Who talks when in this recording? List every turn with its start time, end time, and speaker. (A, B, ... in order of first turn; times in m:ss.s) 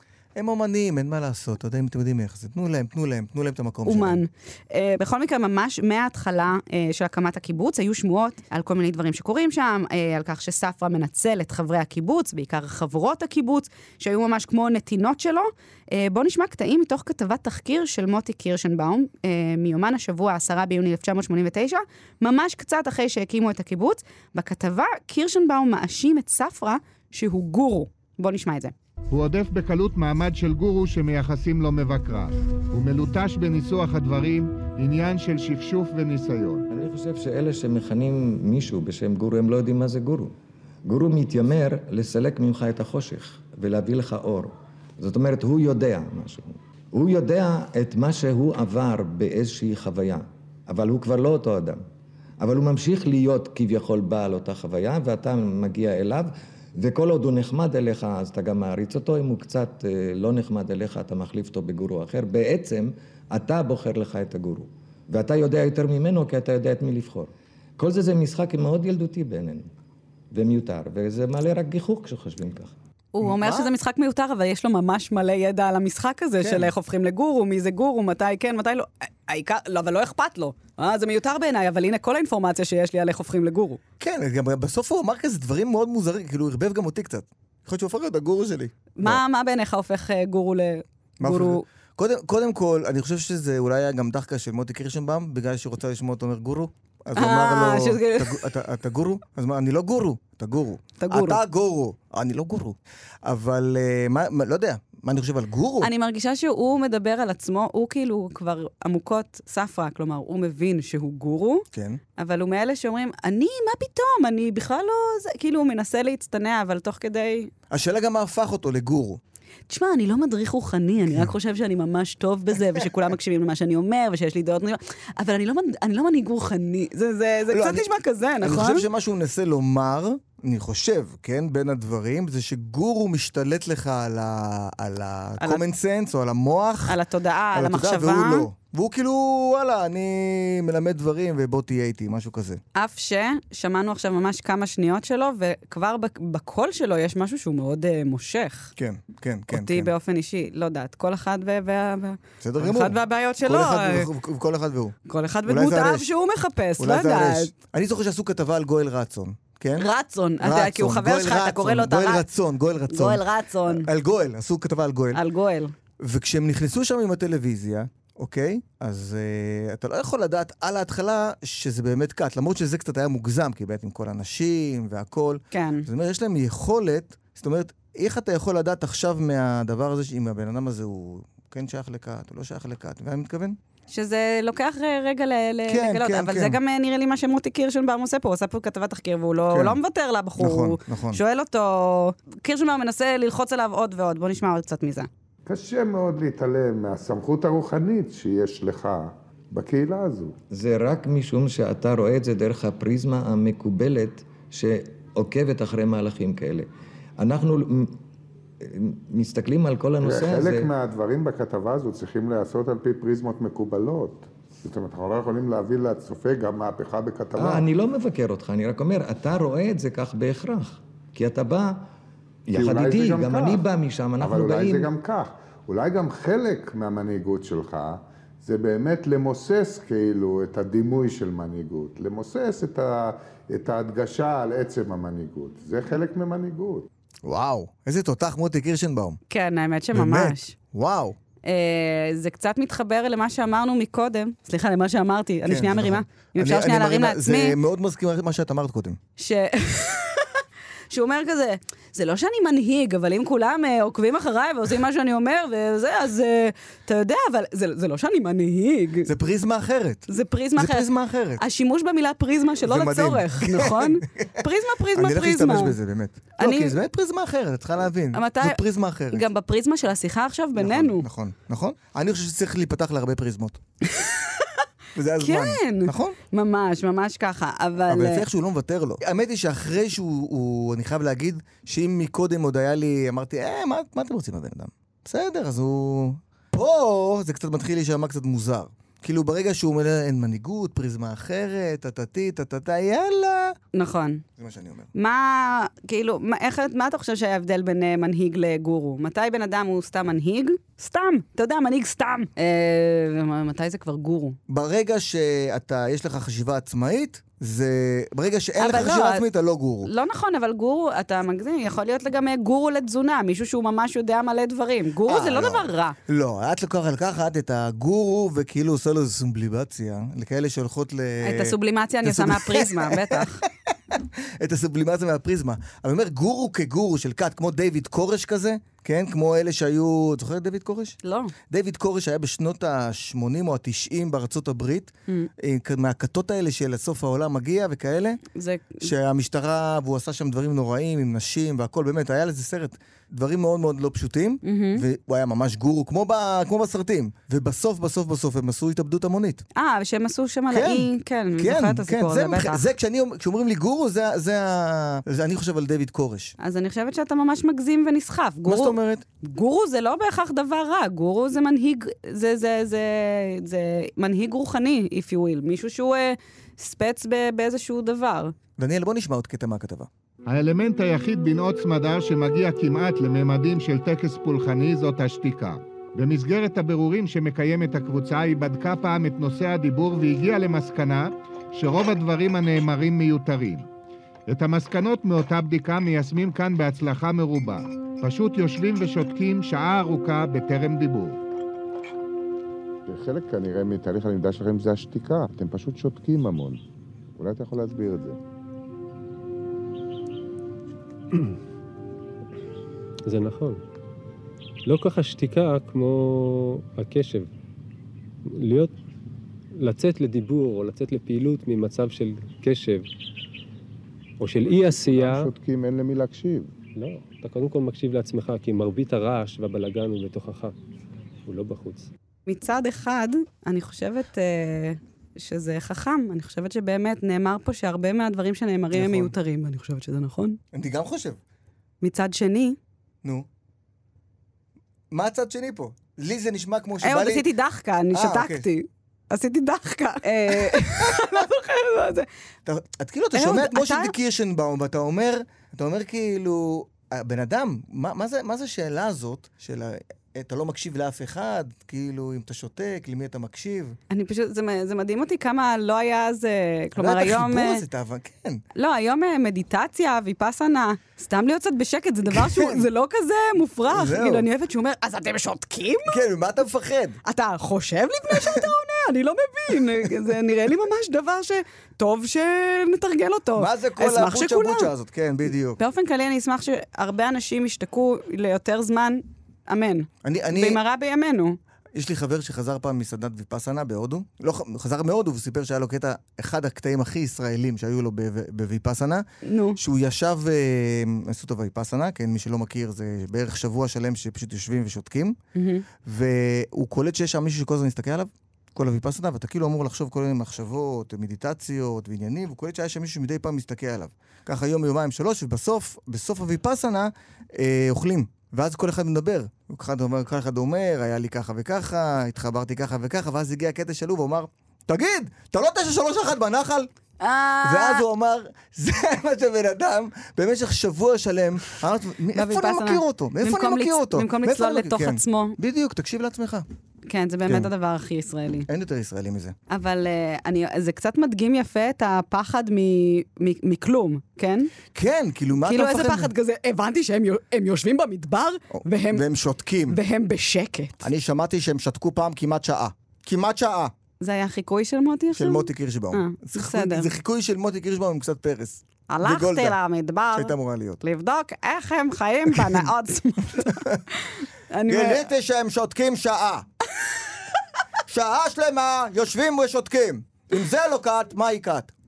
0:00.3-0:04.2 A
0:03.8-0:28.7 B
0:29.1-0:36.6 C
0:36.7-0:51.8 D
0:52.4-1:09.7 D
1:10.3-1:12.7 D
1:13.1-1:23.8 B
1:13.2-1:13.7 A
1:16.4-1:16.7 A
1:24.0-1:29.2 A
1:29.0-1:31.6 B
1:31.2-1:45.9 A
1:37.2-1:38.4 B
1:41.0-1:41.4 B
1:45.8-1:57.5 B
1:51.7-1:52.0 A
1:57.7-1:59.2 A
1:59.7-2:08.9 B
2:07.5-2:07.9 A
2:08.4-2:17.0 A
2:16.9-2:18.4 B
2:17.5-2:22.6 A
2:22.7-2:28.7 B
2:28.8-2:29.9 A
2:29.5-2:34.1 B
2:32.4-2:36.1 A
2:35.1-2:37.5 B
2:36.8-2:39.8 A
2:39.8-2:42.2 B
2:40.4-2:45.2 A
2:42.9-2:43.9 B
2:45.1-2:45.7 B
2:46.0-3:03.6 A
2:55.5-2:55.8 B
3:03.9-3:15.1 B
3:05.7-3:06.6 A
3:09.5-3:09.8 A
3:10.4-3:11.2 A
3:15.4-3:20.4 E
3:20.5-3:28.0 D
3:28.6-3:30.7 D
3:30.0-3:37.7 E
3:37.3-3:41.9 D
3:42.4-3:44.9 D
3:42.5-3:43.6 E
3:44.2-3:56.9 E
3:57.2-3:59.2 A
3:59.3-4:00.5 B
3:59.9-4:01.2 A
4:01.4-4:07.5 B
4:05.5-4:09.0 A
4:09.2-4:19.1 B
4:19.0-4:21.4 A
4:20.1-4:20.9 B
4:21.4-4:25.8 B
4:22.6-4:24.4 A
4:24.9-4:29.2 A
4:26.4-4:26.8 B
4:28.1-4:28.6 B
4:29.1-4:31.0 B
4:30.6-4:33.6 A
4:33.8-4:34.6 B
4:34.9-4:36.2 A
4:35.2-4:38.2 B
4:37.9-4:53.6 A
4:53.7-4:54.2 B
4:54.4-4:54.9 A
4:54.9-5:04.4 B
5:04.5-5:09.9 A
5:08.6-5:09.2 B
5:09.8-5:16.0 B
5:15.0-5:23.2 A
5:21.2-5:23.4 B
5:23.9-5:31.0 A
5:31.0-5:31.3 B
5:31.5-5:38.2 A
5:38.3-5:38.9 B
5:38.8-5:49.4 A
5:44.4-5:44.8 B
5:49.5-5:52.6 B
5:50.5-5:56.3 A
5:56.4-6:08.3 B
5:58.4-5:59.0 A
6:08.6-6:09.9 A
6:10.3-6:23.7 C
6:24.3-6:31.2 C
6:32.9-6:36.6 E
6:37.1-6:38.2 E
6:43.0-6:43.6 F
6:44.6-6:47.3 F
6:48.2-6:48.7 F
6:49.6-6:52.9 F
6:54.2-6:55.3 F
6:54.4-6:56.5 E
6:56.8-7:00.5 F
7:01.2-7:01.9 F
7:02.3-7:10.4 B
7:08.7-7:09.1 A
7:10.5-7:11.2 A
7:11.8-7:12.6 B
7:14.9-7:17.2 A
7:16.8-7:22.1 B
7:17.9-7:18.4 A
7:20.4-7:21.1 A
7:22.4-7:33.8 A
7:23.1-7:23.9 B
7:33.9-7:37.6 B
7:36.8-7:38.4 A
7:38.6-7:46.0 B
7:42.1-7:42.6 A
7:43.7-7:44.2 A
7:45.9-7:47.0 A
7:47.0-7:54.7 B
7:53.4-7:55.6 A
7:55.6-8:01.4 B
8:00.0-8:00.6 A
8:01.7-8:09.0 A
8:09.2-8:09.6 B
8:09.6-8:15.2 A
8:15.3-8:15.6 B
8:15.8-8:36.7 A
8:37.0-8:37.8 B
8:37.4-8:46.4 A
8:42.1-8:45.4 B
8:46.9-8:48.5 B
8:48.5-8:49.3 A
8:49.5-8:54.5 B
8:54.7-8:56.1 A
8:55.4-8:59.0 B
8:58.5-8:59.8 A
8:59.7-9:00.8 B
9:00.8-9:03.7 A
9:04.0-9:06.9 B
9:05.1-9:09.6 A
9:08.9-9:15.0 B
9:10.1-9:10.8 A
9:12.3-9:12.6 A
9:13.4-9:13.8 A
9:14.7-9:16.4 A
9:17.9-9:21.7 A